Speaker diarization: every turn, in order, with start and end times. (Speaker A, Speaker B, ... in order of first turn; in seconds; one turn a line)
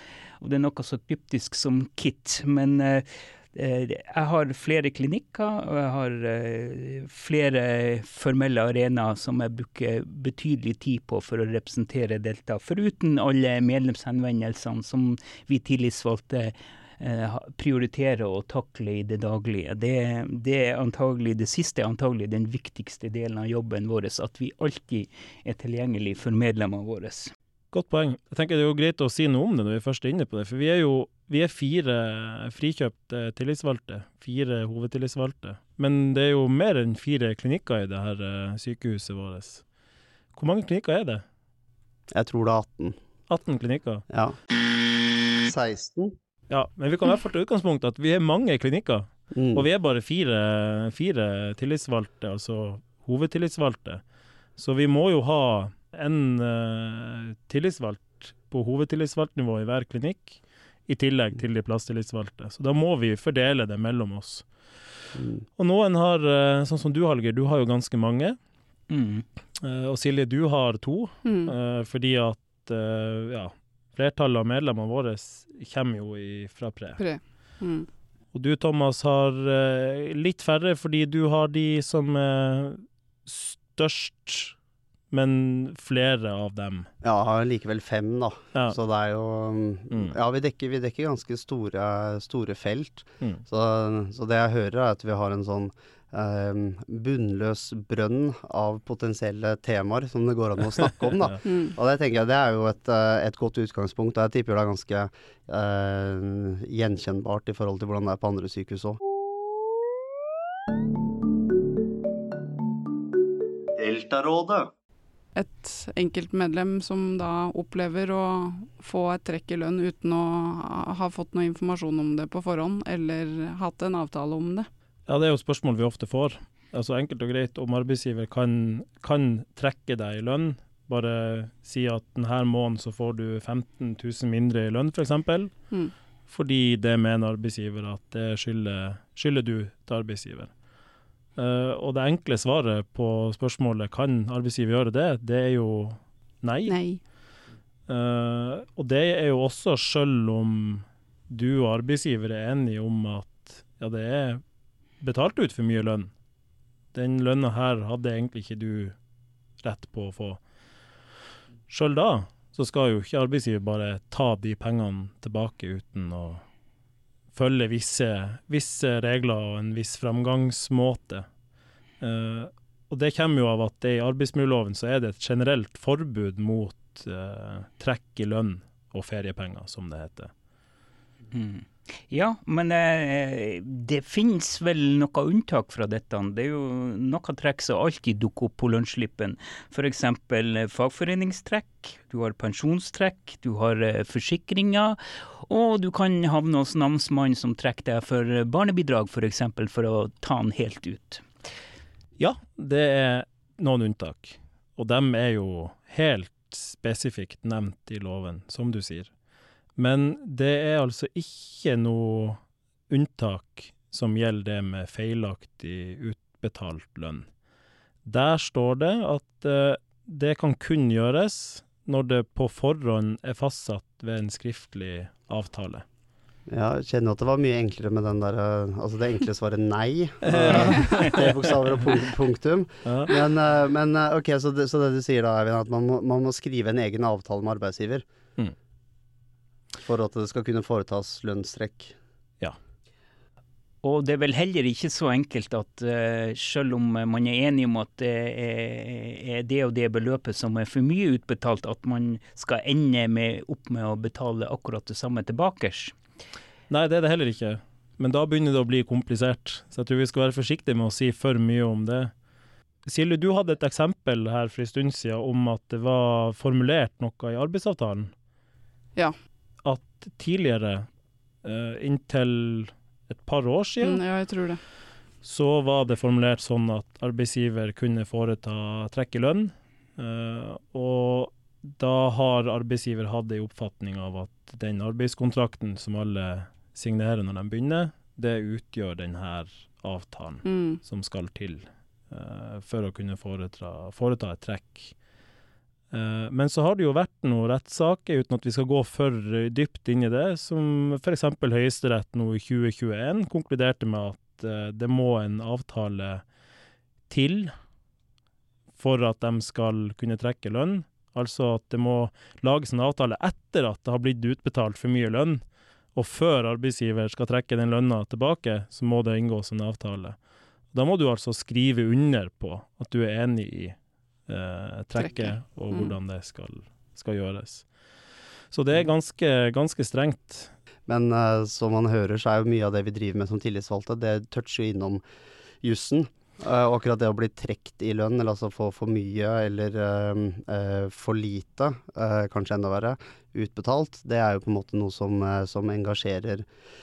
Speaker A: 0.4-27.3
Speaker B: 27.7-39.6
Speaker B: 40.3-41.2
Speaker C: 42.1-43.0
Speaker B: 43.3-44.0
Speaker C: 45.4-46.1
Speaker B: 46.5-54.0
Speaker C: 49.3-49.7
Speaker B: 54.6-64.5
Speaker B: 65.6-68.4
Speaker A: 68.9-69.2
Speaker B: 69.6-77.0
Speaker D: 71.2-71.5
Speaker D: 77.0-77.9
Speaker B: 78.3-84.5
Speaker B: 85.1-86.9
Speaker C: 87.0-109.0
Speaker D: 101.5-101.7
Speaker C: 113.8-114.7
Speaker D: 115.3-124.7
Speaker B: 125.1-135.5
Speaker B: 136.3-140.5
Speaker B: 141.4-146.8
Speaker D: 146.7-147.0
Speaker B: 147.9-154.4
Speaker B: 155.0-156.1
Speaker B: 156.9-159.0
Speaker B: 159.6-160.4
Speaker B: 161.7-166.4
Speaker B: 167.3-171.3
Speaker B: 172.0-180.3
Speaker A: 181.3-201.2
Speaker B: 202.2-209.1
Speaker B: 209.8-217.3
Speaker B: 218.1-225.8
Speaker C: 226.5-238.1
Speaker B: 230.2-231.6
Speaker B: 232.8-233.2
Speaker C: 239.8-242.0
Speaker A: 243.8-255.9
Speaker B: 256.7-262.1
Speaker B: 262.9-268.1
Speaker B: 269.6-270.9
Speaker B: 271.4-274.1
Speaker D: 273.8-274.6
Speaker B: 275.2-294.9
Speaker D: 290.4-290.8
Speaker B: 295.9-306.2
Speaker B: 307.1-307.5
Speaker B: 308.8-315.4
Speaker B: 315.9-320.2
Speaker B: 320.7-323.8
Speaker B: 324.3-327.7
Speaker D: 325.0-325.9
Speaker B: 328.5-330.5
Speaker C: 330.9-335.0
Speaker C: 335.6-346.5